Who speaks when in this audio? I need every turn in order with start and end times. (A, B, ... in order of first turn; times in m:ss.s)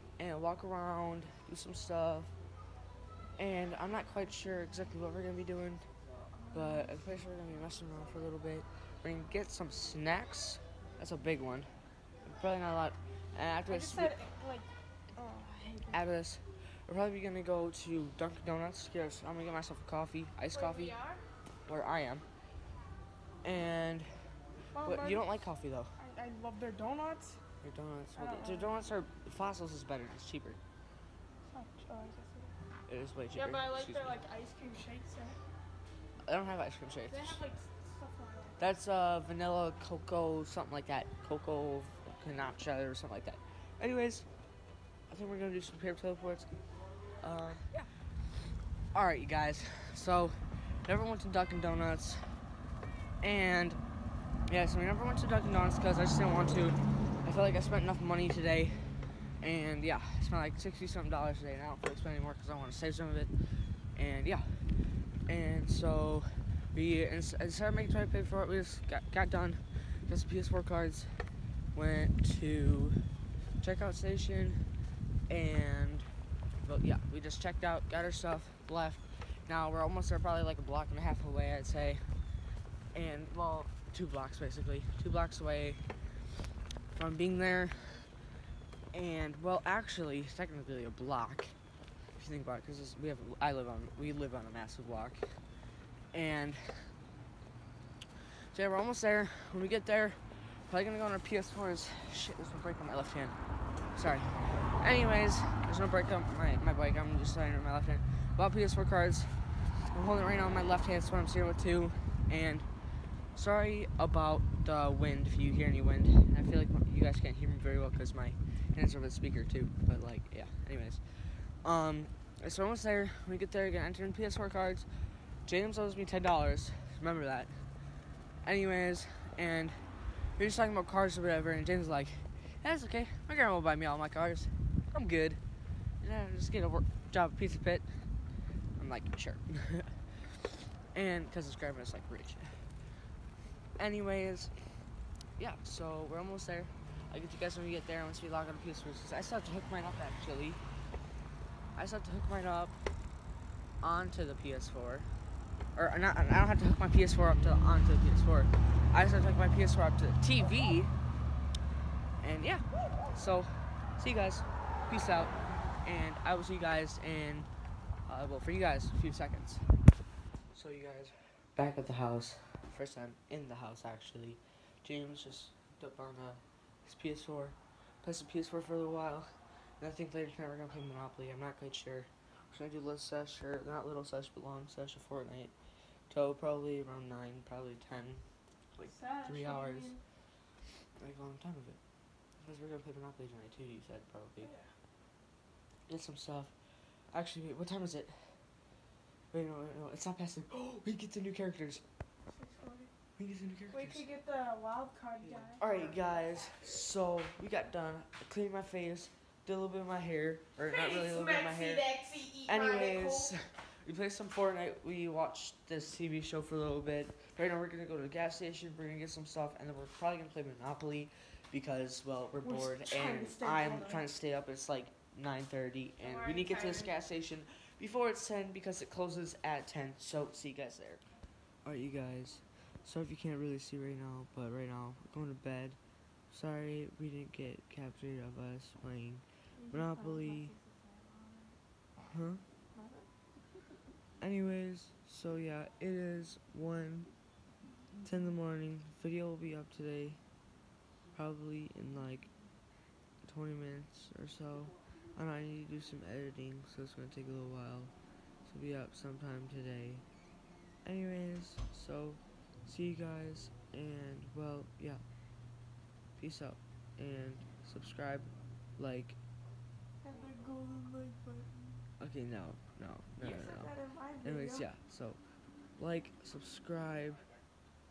0:00.2-0:02.3 A
0:03.4-0:05.9 A
0:06.4-0:07.0 B
0:06.5-0:11.7 A
0:12.2-0:14.1 A
0:13.7-0:16.0 B
0:15.9-0:20.9 A
0:20.5-0:21.2 B
0:21.6-0:22.2 A
0:23.4-0:24.3 A
0:24.7-0:25.3 B
0:24.8-0:25.9 A
0:26.0-0:27.4 B
0:27.6-0:30.6 A
0:28.2-0:28.7 B
0:31.5-0:32.5 B
0:32.9-0:34.1 A
0:33.3-0:35.4 B
0:36.2-0:37.4 A
0:37.1-0:38.7 B
0:38.6-0:44.2 A
0:45.1-0:46.5 A
0:47.2-0:47.7 A
0:48.9-0:52.4 A
0:53.2-0:53.8 A
0:54.5-1:14.6 A
1:15.3-1:16.1 A
1:16.6-1:22.1 A
1:22.9-1:25.9 A
1:26.9-1:28.1 A
1:28.9-1:31.6 A
1:32.2-1:35.4 A
1:36.1-1:36.9 A
1:38.5-1:43.4 A
1:43.9-1:52.7 A
1:53.3-2:04.9 A
2:05.4-2:07.6 A
2:08.4-2:15.4 A
2:16.0-2:18.1 A
2:18.8-2:22.7 A
2:23.8-2:24.8 A
2:25.4-2:30.6 A
2:31.8-2:32.8 A
2:33.8-2:35.1 A
2:35.7-2:40.9 A
2:42.2-2:47.5 A
2:48.0-2:49.7 A
2:50.5-3:05.5 A
3:06.1-3:08.2 A
3:08.8-3:09.9 A
3:08.8-3:10.0 B
3:11.0-3:11.8 A
3:12.4-3:14.5 A
3:14.4-3:14.7 B
3:15.9-3:16.5 A
3:17.1-3:18.4 A
3:19.3-3:21.8 A
3:22.3-3:22.9 B
3:23.2-3:24.1 A
3:23.7-3:25.7 B
3:25.2-3:51.0 A
3:31.9-3:33.1 B
3:42.4-3:44.0 B
3:46.0-3:46.9 B
3:51.6-3:55.8 A
3:56.3-4:00.5 A
3:59.6-4:01.6 B
4:02.1-4:02.4 A
4:02.7-4:03.1 B
4:04.2-4:07.1 A
4:08.0-4:10.2 A
4:11.1-4:12.3 A
4:13.2-4:17.9 A
4:18.4-4:20.0 A
4:20.8-4:25.0 A
4:26.2-4:29.2 A
4:30.0-4:31.5 B
4:32.0-4:35.2 A
4:33.2-4:34.7 B
4:35.8-4:37.2 A